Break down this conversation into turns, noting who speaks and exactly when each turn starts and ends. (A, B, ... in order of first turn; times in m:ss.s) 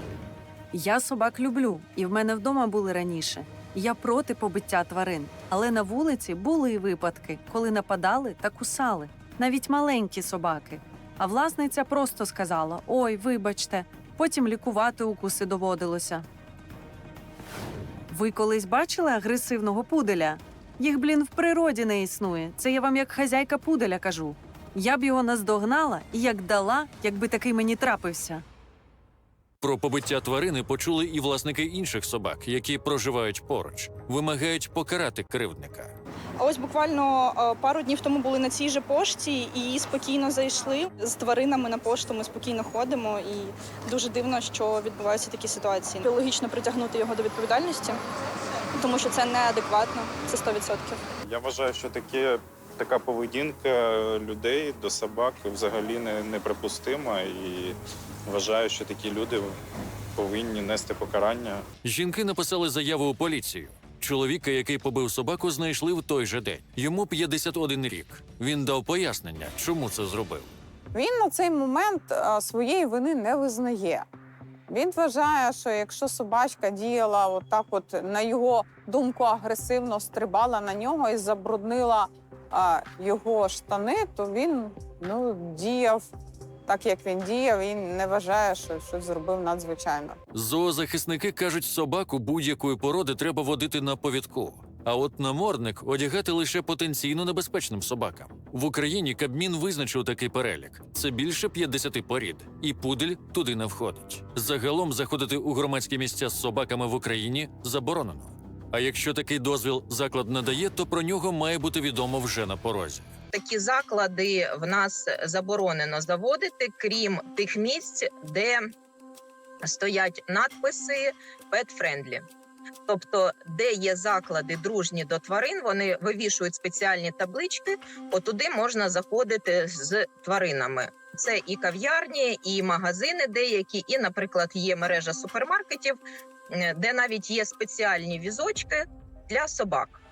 0:00.7-0:16.3 A
0:18.1-0:28.4 A
0:29.6-0:35.9 B
0:36.4-0:48.0 C
0:48.8-0:51.0 C
0:51.2-0:59.6 D
1:00.2-1:01.6 D
1:01.8-1:10.5 B
1:10.9-1:14.1 E
1:14.7-1:26.1 E
1:26.7-1:30.2 E
1:30.3-1:53.1 B
1:53.3-1:58.7 F
1:59.6-2:02.3 F
2:02.9-2:16.0 F
2:16.5-2:20.0 F